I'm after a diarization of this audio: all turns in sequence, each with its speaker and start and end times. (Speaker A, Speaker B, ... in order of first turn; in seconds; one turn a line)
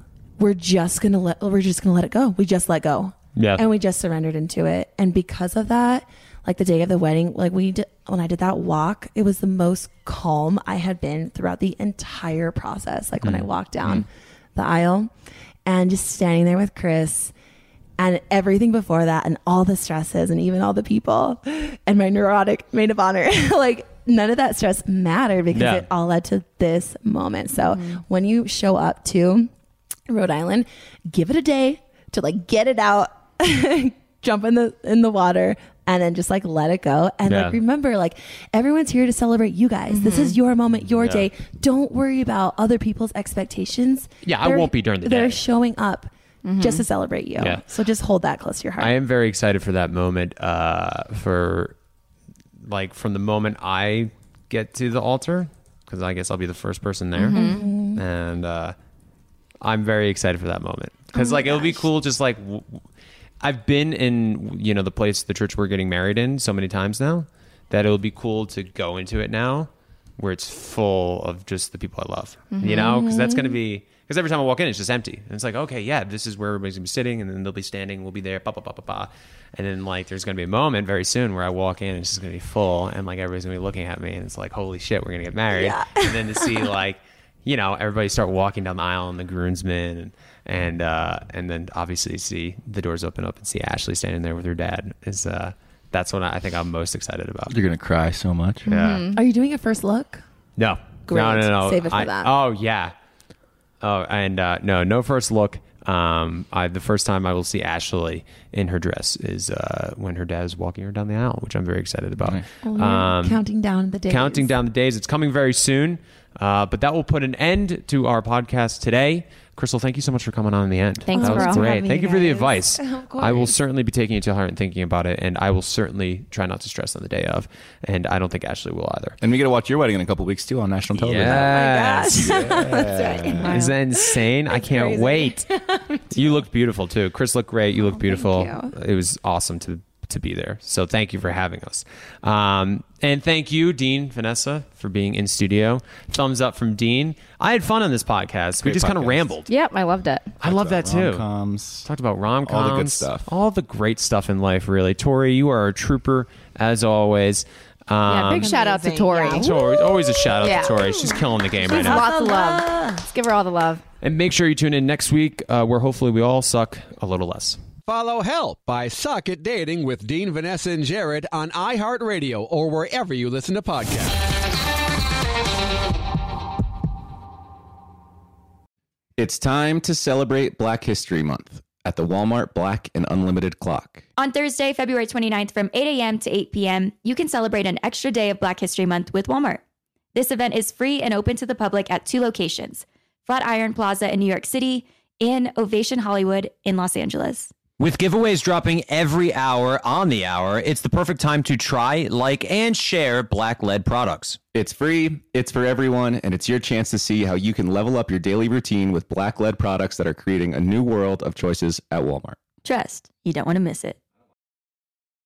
Speaker A: 0.4-15.1
Speaker B: 3.4-3.6
Speaker A: 15.7-17.3
Speaker A: 18.0-29.5
Speaker B: 25.5-25.8
Speaker C: 27.7-28.0
Speaker A: 30.1-49.0
Speaker B: 37.2-37.6
Speaker C: 39.9-40.4
Speaker B: 41.0-41.3
Speaker B: 44.2-45.4
Speaker C: 46.4-46.8
Speaker B: 47.4-47.6
Speaker B: 48.8-51.7
Speaker B: 52.6-58.7
Speaker C: 57.1-57.7
Speaker A: 57.2-58.0
Speaker B: 59.6-62.8
Speaker A: 61.1-61.9
Speaker B: 63.4-97.6
Speaker C: 72.5-72.9
Speaker A: 72.7-73.6
Speaker A: 85.5-86.7
Speaker D: 97.5-98.7
Speaker C: 98.7-99.2
Speaker B: 98.7-99.1
Speaker A: 99.1-100.2
Speaker B: 100.6-102.9
Speaker A: 101.1-102.3
Speaker B: 103.8-113.4
Speaker A: 112.6-114.5
Speaker B: 114.1-129.2
Speaker C: 121.1-121.6
Speaker A: 121.1-123.6
Speaker D: 129.2-133.6
Speaker B: 131.0-132.6
Speaker A: 131.2-136.4
Speaker B: 133.3-135.4
Speaker B: 136.1-149.5
Speaker A: 137.7-138.7
Speaker D: 148.6-149.3
Speaker C: 149.5-150.3
Speaker B: 150.4-151.2
Speaker D: 150.4-151.9
Speaker B: 151.8-158.5
Speaker D: 152.4-153.3
Speaker C: 158.1-159.6
Speaker A: 158.3-163.1
Speaker B: 159.3-162.0
Speaker C: 160.4-160.8
Speaker C: 161.7-163.8
Speaker B: 164.0-167.6
Speaker E: 167.8-174.2
Speaker D: 179.2-184.1
Speaker F: 184.2-189.6
Speaker F: 190.1-197.5
Speaker G: 197.8-204.4
Speaker D: 204.5-212.4
Speaker F: 212.6-214.0